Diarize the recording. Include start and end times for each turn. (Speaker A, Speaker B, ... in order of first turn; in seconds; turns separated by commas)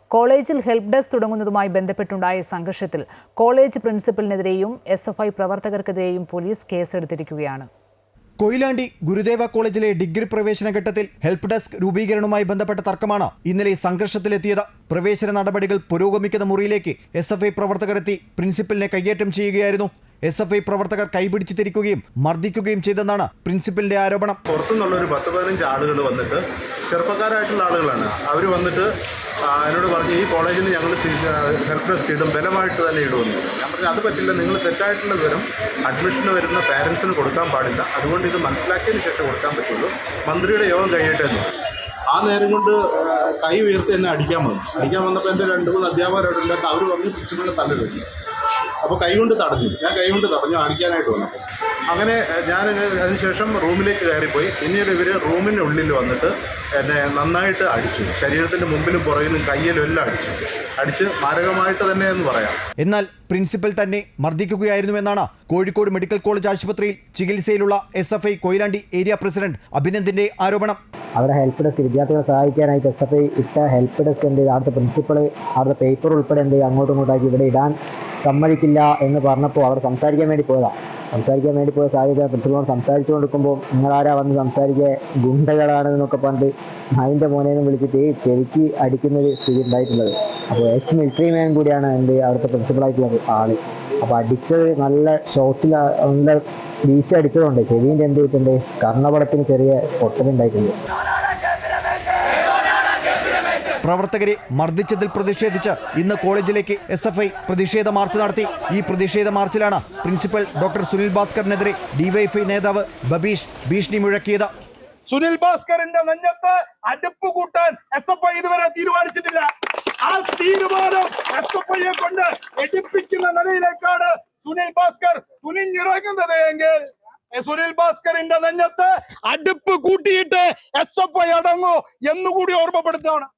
Speaker A: 0.1-7.7, Speaker B: 8.4-24.4, Speaker C: 24.5-28.9, Speaker C: 29.5-48.1, Speaker C: 48.9-51.4, Speaker C: 51.9-62.6, Speaker B: 62.8-70.8, Speaker D: 71.2-100.8, Speaker B: 103.8-114.5, Speaker E: 115.1-133.3